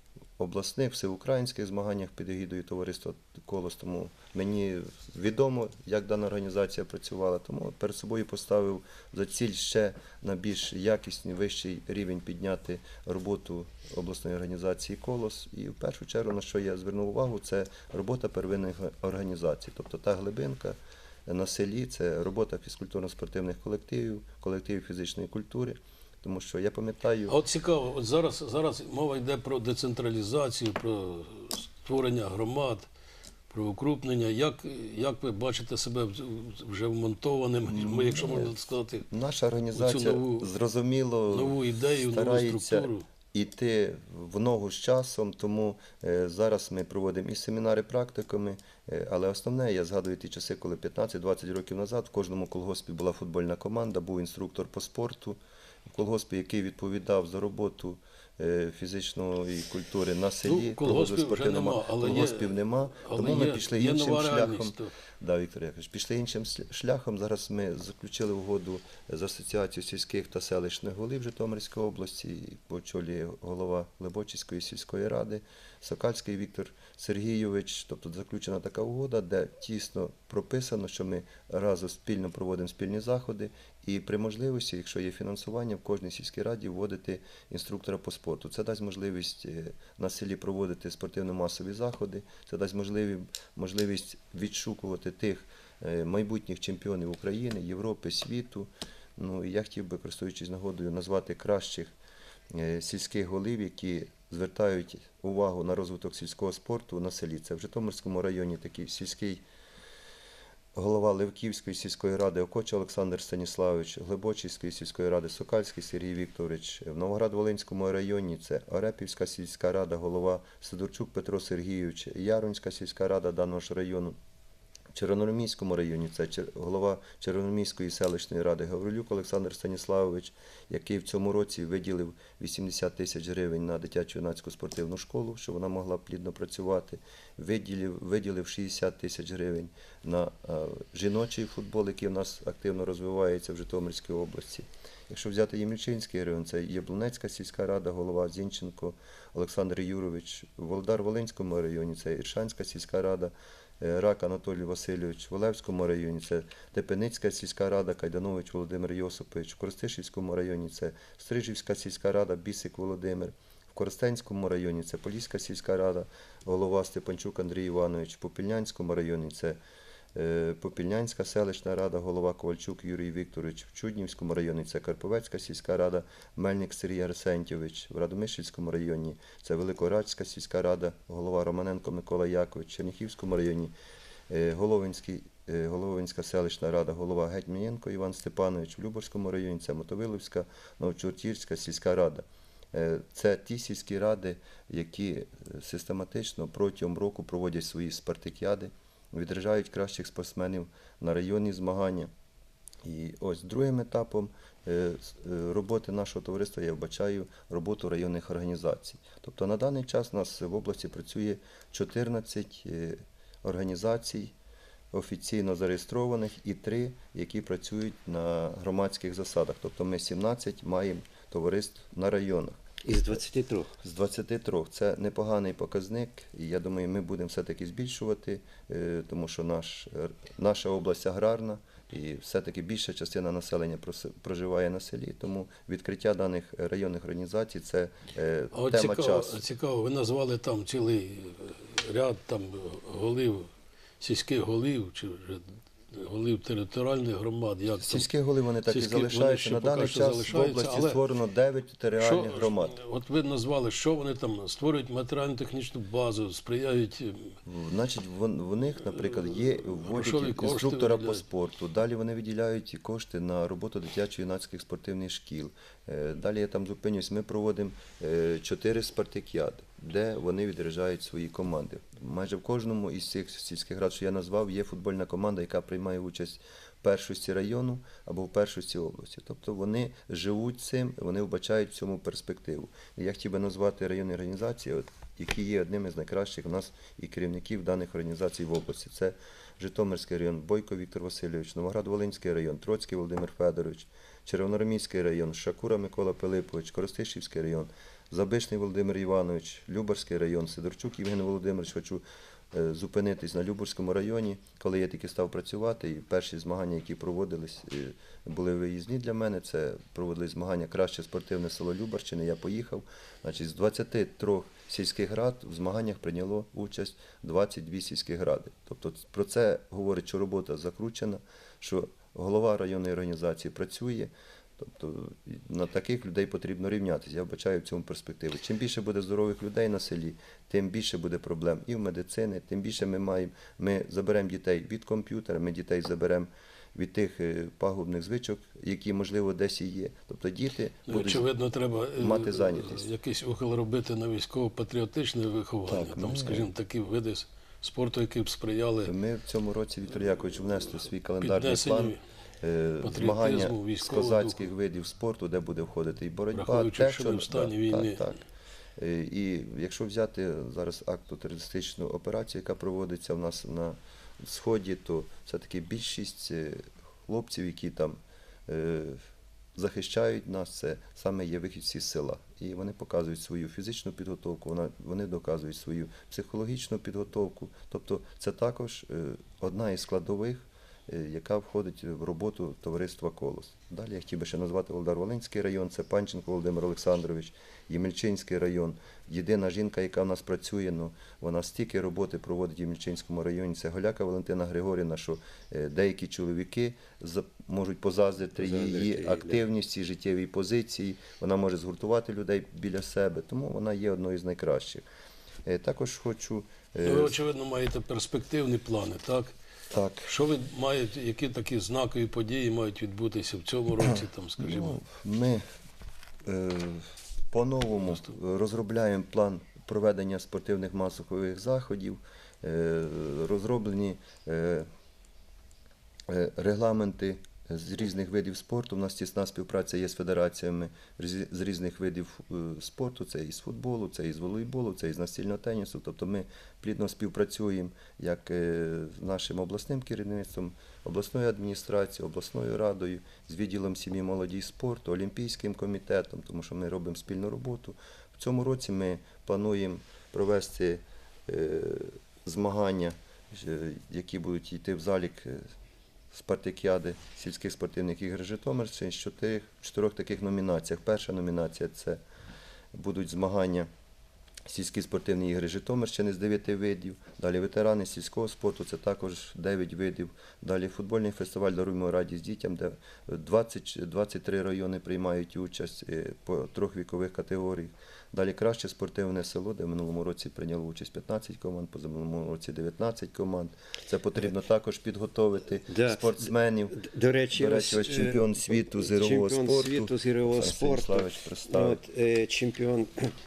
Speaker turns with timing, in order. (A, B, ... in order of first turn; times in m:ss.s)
0:00.4-0:27.4 A
0:27.3-0:32.9 B
0:33.5-0:39.1 B
0:37.7-0:38.5 A
0:39.1-1:41.9 A
0:39.8-0:40.5 B
0:41.3-0:43.0 B
1:00.4-1:04.9 B
1:42.5-1:49.4 A
1:50.8-2:04.2 A
2:04.9-2:49.6 A
2:50.1-3:03.7 A
3:04.3-3:22.1 A
3:22.8-3:34.3 A
3:34.9-3:42.6 A
3:42.8-3:43.7 C
3:43.8-3:59.4 A
3:58.5-4:08.1 B
4:07.8-4:12.8 A
4:08.7-4:11.0 B
4:12.0-4:17.4 B
4:17.4-5:41.3 A
4:19.8-4:21.2 B
5:40.9-5:48.9 B
5:42.0-5:42.9 A
5:45.7-5:46.5 A
5:48.8-5:58.2 A
5:51.2-5:52.0 B
5:52.8-5:54.4 B
5:56.3-5:58.0 B
5:58.8-6:09.0 A
6:09.6-6:44.8 A
6:38.4-6:39.4 C
6:45.4-6:47.2 A
6:46.8-6:49.3 B
6:49.7-6:50.1 A
6:50.0-6:54.8 B
6:53.9-6:55.4 A
6:56.2-7:04.7 A
7:06.1-7:35.4 A
7:36.1-7:42.0 A
7:42.7-7:43.7 A
7:44.5-8:06.8 A
8:05.7-8:13.1 C
8:07.3-8:11.8 A